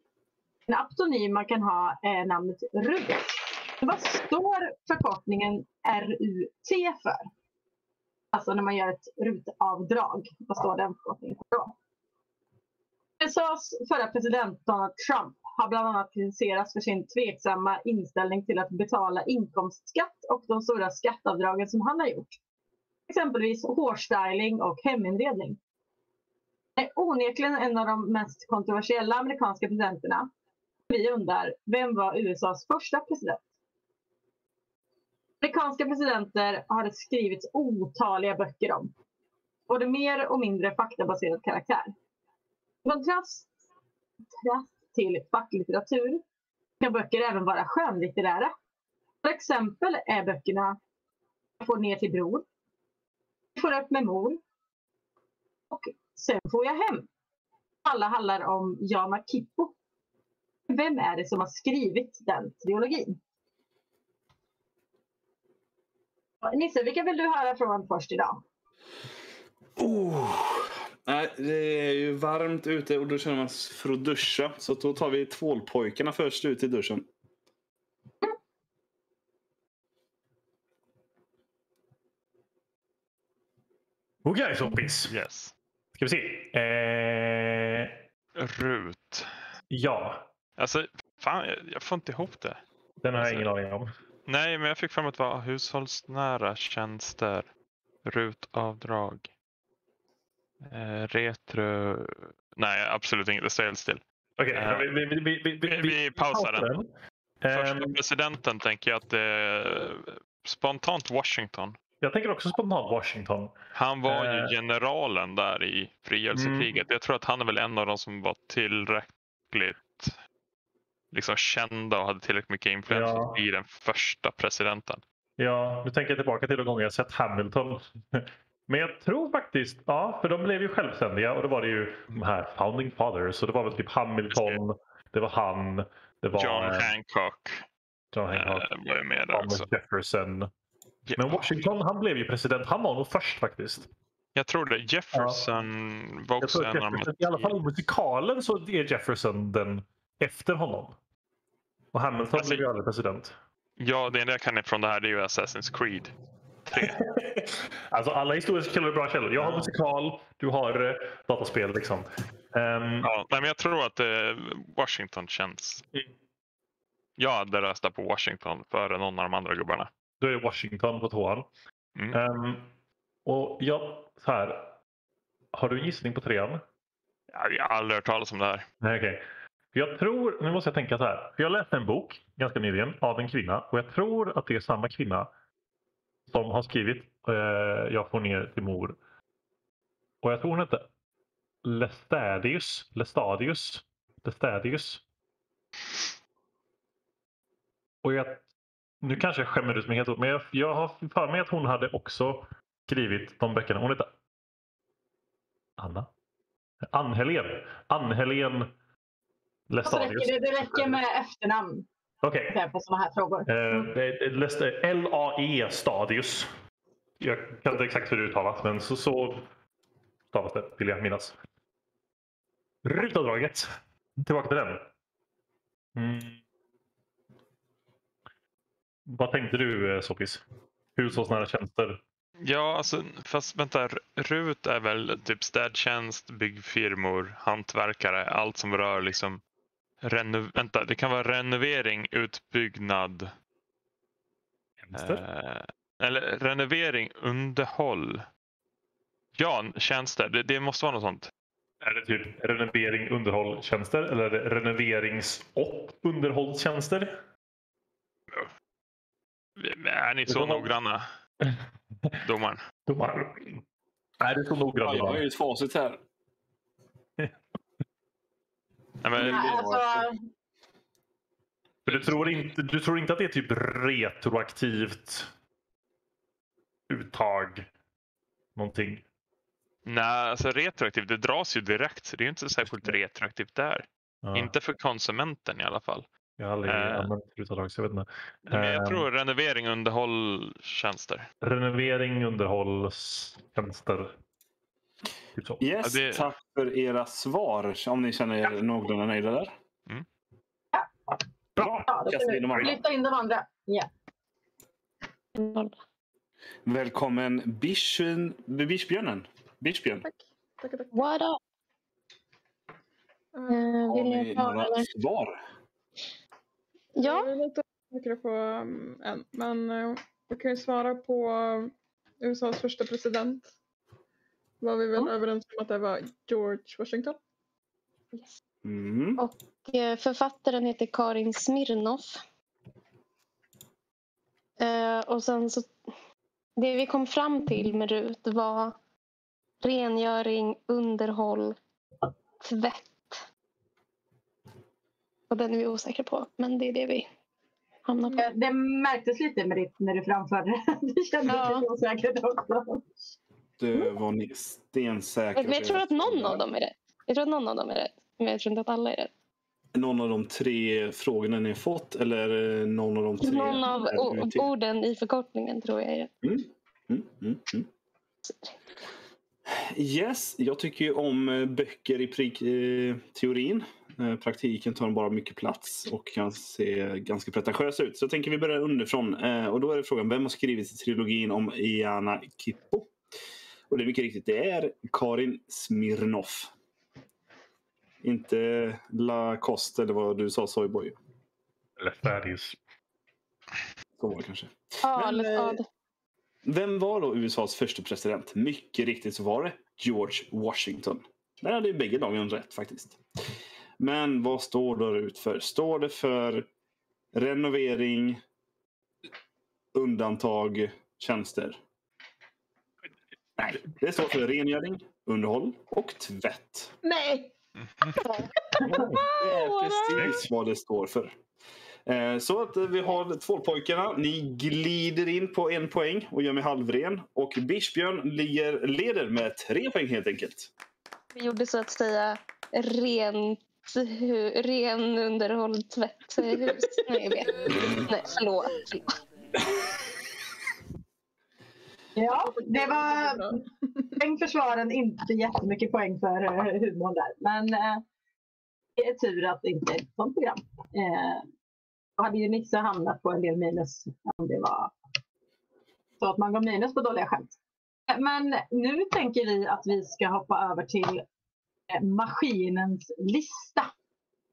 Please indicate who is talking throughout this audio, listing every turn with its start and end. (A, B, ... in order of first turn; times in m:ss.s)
0:00.7-0:07.2 A
0:08.3-0:11.7 A
0:13.2-0:22.4 A
0:23.1-0:25.6 A
0:26.8-0:30.3 A
0:30.9-0:33.4 A
0:35.4-0:38.9 A
0:39.7-0:41.9 A
0:42.8-0:43.5 A
0:44.3-0:46.2 A
0:46.8-0:48.5 A
0:49.2-0:50.8 A
0:51.6-0:52.4 A
0:53.5-0:54.4 A
0:55.7-0:57.1 A
0:57.8-0:59.7 A
1:00.7-1:03.2 A
1:06.4-1:08.4 A
1:09.8-1:17.1 B
1:24.2-1:25.1 C
1:25.1-1:25.5 D
1:26.0-1:28.0 C
1:28.3-1:29.3 D
1:29.7-1:30.3 C
1:30.6-1:32.6 D
1:33.0-1:33.9 C
1:33.2-1:33.5 D
1:34.2-1:37.5 D
1:38.0-1:39.3 D
1:40.7-1:44.0 D
1:44.4-1:46.9 C
1:44.5-1:44.9 D
1:45.6-1:46.7 D
1:47.4-1:47.9 C
1:47.5-1:51.8 D
1:52.0-1:53.5 C
1:53.7-2:00.2 D
1:54.0-1:54.5 C
1:56.3-1:56.7 C
2:01.1-2:05.0 D
2:02.9-2:03.4 C
2:05.4-2:16.9 C
2:14.3-2:14.6 D
2:16.4-2:17.7 D
2:18.1-2:18.7 C
2:18.3-2:19.6 D
2:19.3-2:20.5 C
2:21.0-2:21.7 D
2:21.2-2:23.9 C
2:24.4-2:27.5 D
2:25.1-2:25.4 C
2:26.4-2:30.9 C
2:31.9-2:33.3 C
2:32.4-2:32.6 D
2:33.8-2:36.1 D
2:36.7-2:37.0 D
2:36.7-2:43.1 C
2:39.4-2:39.7 D
2:43.0-2:45.8 D
2:47.2-2:49.9 D
2:50.2-2:51.5 C
2:52.1-2:52.7 C
2:53.2-2:54.8 C
2:55.5-2:56.6 C
2:57.3-2:58.6 D
2:58.8-3:05.3 C
3:06.3-3:09.0 C
3:10.2-3:10.9 C
3:11.6-3:15.0 C
3:18.0-3:18.4 C
3:19.0-3:24.1 C
3:25.8-3:26.1 C
3:26.9-3:28.7 C
3:29.7-3:31.0 C
3:29.8-3:31.9 A
3:32.2-3:32.5 C
3:32.5-3:33.9 A
3:33.4-3:36.5 C
3:37.2-3:39.5 C
3:40.3-3:41.4 C
3:42.8-3:43.7 C
3:44.2-3:44.8 C
3:45.9-3:46.4 C
3:49.1-3:50.4 C
3:51.0-3:52.0 C
3:52.4-3:59.4 D
4:00.0-4:03.3 D
4:04.8-4:05.2 C
4:04.9-4:08.3 D
4:09.4-4:11.3 D
4:11.8-4:17.2 C
4:19.6-4:21.0 D
4:20.3-4:20.7 C
4:21.4-4:22.2 C
4:22.2-4:22.6 D
4:22.9-4:23.6 C
4:24.2-4:25.2 C
4:24.8-4:26.0 B
4:29.0-4:29.7 D
4:29.1-4:30.1 B
4:29.2-4:30.2 A
4:31.8-4:35.3 C
4:31.9-4:32.4 D
4:36.9-4:37.7 C
4:38.6-4:39.0 C
4:39.8-4:46.1 D
4:42.7-4:43.0 C
4:44.2-4:44.5 C
4:46.4-4:49.0 C
4:46.6-4:47.1 D
4:48.5-4:51.3 D
4:51.4-4:54.2 C
4:55.4-4:55.6 C
4:55.6-4:59.5 B
4:55.8-4:56.3 D
5:00.7-5:01.1 A
5:01.6-5:01.9 C
5:01.6-5:02.8 B
5:01.9-5:03.9 A
5:05.3-5:05.8 E
5:06.6-5:10.0 B
5:10.0-5:11.1 F
5:10.9-5:11.4 E
5:13.3-5:13.8 F
5:13.5-5:14.9 E
5:13.9-5:15.4 B
5:17.0-5:17.3 E
5:17.0-5:23.5 F
5:24.6-5:27.2 F
5:28.6-5:29.2 B
5:29.2-5:32.2 E
5:34.6-5:35.7 E
5:36.6-5:38.7 E
5:39.6-5:41.6 E
5:42.4-5:43.2 E
5:45.3-5:47.1 E
5:47.9-5:48.3 E
5:48.1-5:52.9 A
5:51.3-5:51.6 E
5:53.6-5:56.4 B
5:55.3-5:59.1 E
5:59.7-6:04.5 B
6:03.2-6:06.1 E
6:06.2-6:07.7 B
6:08.2-6:08.5 E
6:09.5-6:22.9 B
6:23.7-6:26.5 B
6:28.0-6:31.0 B
6:31.8-6:32.6 C
6:34.0-6:34.5 B
6:34.8-6:35.6 E
6:35.2-6:35.6 F
6:36.4-6:43.0 B
6:43.8-6:46.5 B
6:47.1-6:48.2 B
6:49.7-6:51.6 B
6:53.4-6:56.7 B
6:56.8-6:57.3 F
6:57.6-6:57.9 D
6:58.0-6:58.3 E
6:58.5-7:00.1 F
6:58.6-6:59.0 C
6:59.2-7:01.1 B
6:59.9-7:00.2 C
7:01.8-7:10.5 B
7:11.1-7:18.8 E
7:16.4-7:18.3 F
7:17.5-7:17.8 B
7:22.0-7:23.3 A
7:22.3-7:24.0 F
7:24.0-7:27.8 A
7:28.8-7:31.3 A
7:32.0-7:34.7 A
7:36.0-7:37.4 A
7:37.9-7:41.0 A
7:41.7-7:43.7 A